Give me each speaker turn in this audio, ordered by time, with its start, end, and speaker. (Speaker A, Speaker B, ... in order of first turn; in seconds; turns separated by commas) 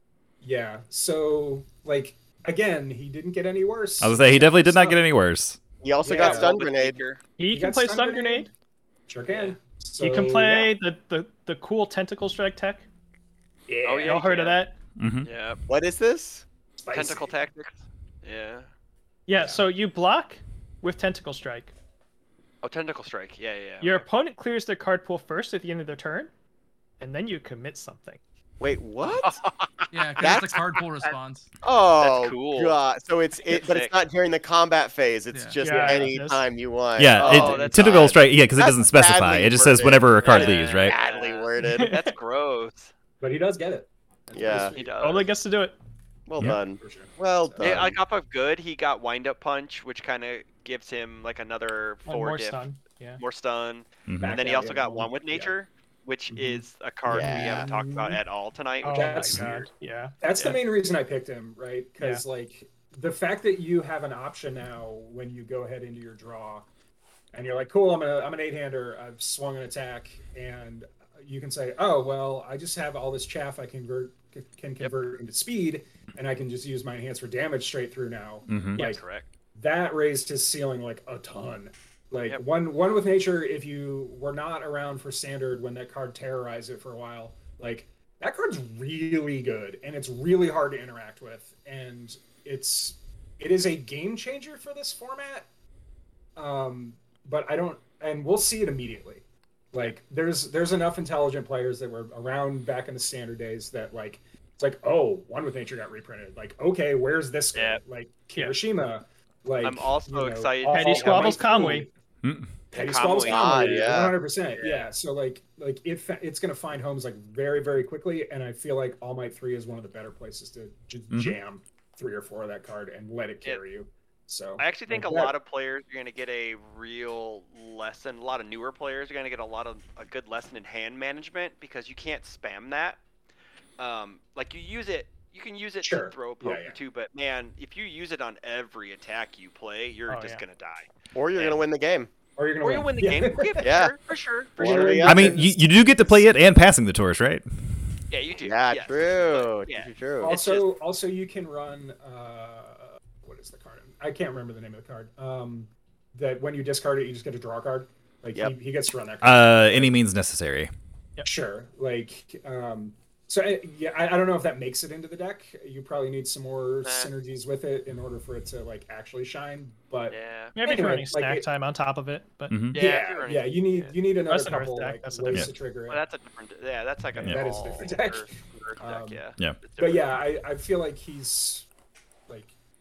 Speaker A: 0.4-5.0, Speaker B: 4.0-5.6, Speaker C: 5.8-7.0, Speaker A: 6.0-6.5, Speaker D: 6.1-7.2, Speaker E: 7.4-8.5, Speaker A: 7.5-8.5, Speaker A: 9.1-10.7, Speaker D: 9.3-9.6, Speaker E: 10.0-12.8, Speaker A: 13.7-14.2, Speaker D: 13.8-14.6, Speaker E: 14.0-14.8, Speaker B: 15.0-15.3, Speaker D: 15.2-15.6, Speaker C: 15.7-16.4, Speaker A: 16.8-17.3, Speaker D: 16.9-18.7, Speaker E: 19.3-21.7, Speaker A: 19.4-19.6, Speaker D: 22.6-24.0, Speaker E: 23.8-26.3, Speaker E: 27.0-28.2, Speaker C: 28.6-29.4, Speaker D: 29.2-30.4, Speaker F: 29.9-31.5, Speaker C: 30.2-30.6, Speaker C: 31.6-41.9, Speaker D: 32.0-32.8, Speaker D: 33.4-33.9, Speaker F: 35.3-35.6, Speaker E: 35.6-36.4, Speaker A: 35.6-36.2, Speaker B: 37.0-40.9, Speaker D: 37.2-37.9, Speaker D: 40.2-42.9, Speaker E: 41.6-42.1, Speaker A: 43.2-45.0, Speaker C: 44.3-44.8, Speaker D: 44.7-45.2, Speaker E: 45.0-45.8, Speaker C: 46.3-48.0, Speaker A: 46.4-47.8, Speaker D: 47.6-52.6, Speaker E: 52.0-53.2, Speaker D: 53.2-59.5, Speaker B: 54.1-54.4, Speaker A: 54.2-55.5, Speaker A: 57.1-58.2, Speaker C: 57.1-57.7, Speaker E: 58.8-60.6, Speaker A: 58.8-59.7, Speaker A: 60.2-66.7, Speaker A: 67.3-79.0, Speaker B: 78.5-78.8, Speaker D: 78.7-79.3, Speaker A: 79.5-95.5, Speaker A: 96.3-111.9, Speaker D: 107.5-107.8, Speaker D: 109.6-111.8, Speaker E: 110.7-111.9, Speaker B: 112.2-112.5, Speaker D: 112.7-114.9, Speaker A: 112.7-125.3, Speaker C: 113.0-114.2, Speaker B: 121.1-121.4, Speaker D: 124.6-133.0, Speaker D: 133.8-141.6, Speaker A: 135.8-136.8, Speaker E: 140.1-140.4, Speaker C: 141.1-142.1, Speaker A: 142.4-143.8, Speaker D: 142.6-145.0, Speaker C: 143.6-143.9, Speaker A: 144.6-146.2, Speaker C: 144.6-145.5, Speaker B: 145.0-147.4, Speaker D: 148.1-150.7, Speaker C: 148.4-150.3, Speaker A: 150.2-160.0, Speaker B: 159.2-160.7, Speaker A: 161.2-171.5, Speaker D: 166.8-167.1, Speaker D: 170.1-170.5, Speaker E: 170.5-172.7, Speaker B: 172.5-172.8, Speaker D: 172.7-173.9, Speaker A: 172.7-176.0, Speaker E: 174.3-175.5, Speaker D: 175.9-180.2, Speaker A: 177.2-179.2, Speaker A: 179.8-181.7